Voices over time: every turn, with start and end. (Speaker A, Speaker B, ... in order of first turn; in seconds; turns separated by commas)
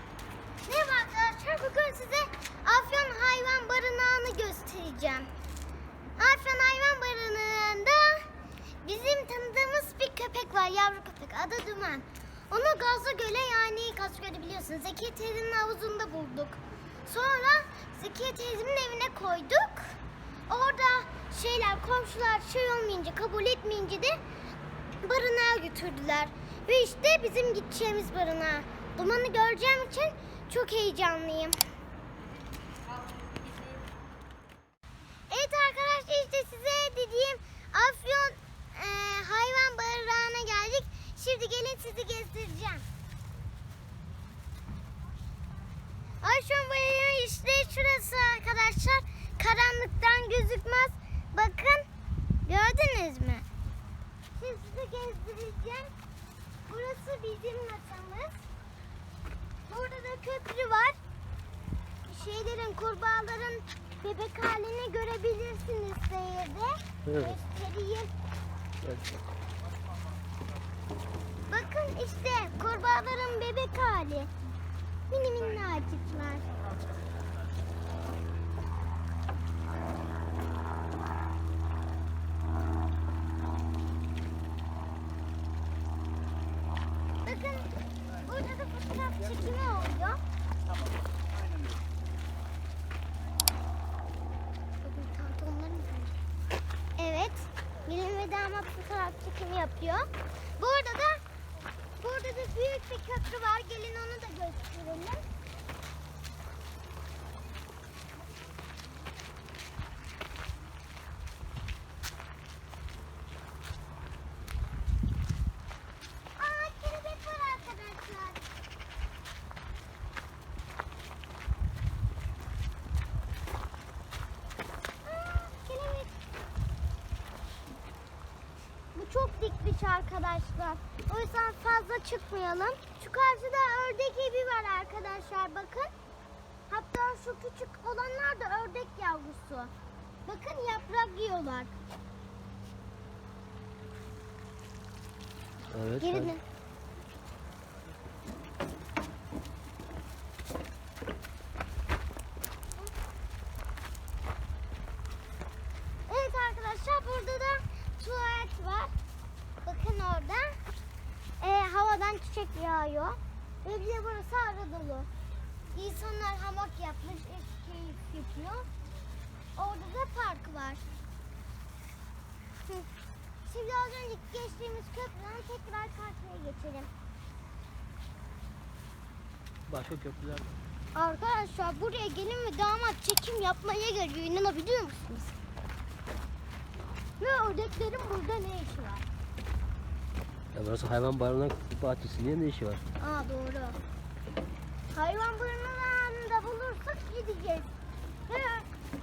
Speaker A: 0.7-5.3, Speaker A: 6.2-8.3, Speaker A: 8.8-24.2, Speaker A: 25.0-31.6, Speaker A: 35.3-42.8, Speaker A: 46.2-51.9, Speaker A: 52.5-53.5, Speaker A: 54.3-55.9, Speaker A: 56.7-58.4, Speaker A: 59.7-61.0, Speaker A: 62.0-68.1, Speaker B: 67.1-67.3, Speaker B: 68.8-69.2, Speaker A: 71.5-74.3, Speaker A: 75.1-76.5, Speaker A: 87.2-90.2, Speaker A: 94.8-96.2, Speaker A: 97.0-101.2, Speaker A: 102.0-105.2, Speaker A: 116.4-118.4, Speaker A: 125.0-126.1, Speaker A: 128.9-135.9, Speaker A: 136.7-139.7, Speaker A: 140.2-141.7, Speaker B: 145.7-146.3, Speaker A: 146.0-146.4, Speaker A: 156.1-158.9, Speaker A: 159.6-160.6, Speaker A: 161.4-165.1, Speaker A: 165.7-168.7, Speaker A: 169.6-170.8, Speaker A: 173.4-176.9, Speaker B: 179.7-180.6, Speaker A: 180.9-185.3, Speaker A: 187.2-189.0, Speaker B: 190.5-192.8, Speaker A: 193.0-193.8, Speaker A: 194.9-197.7, Speaker A: 198.3-198.7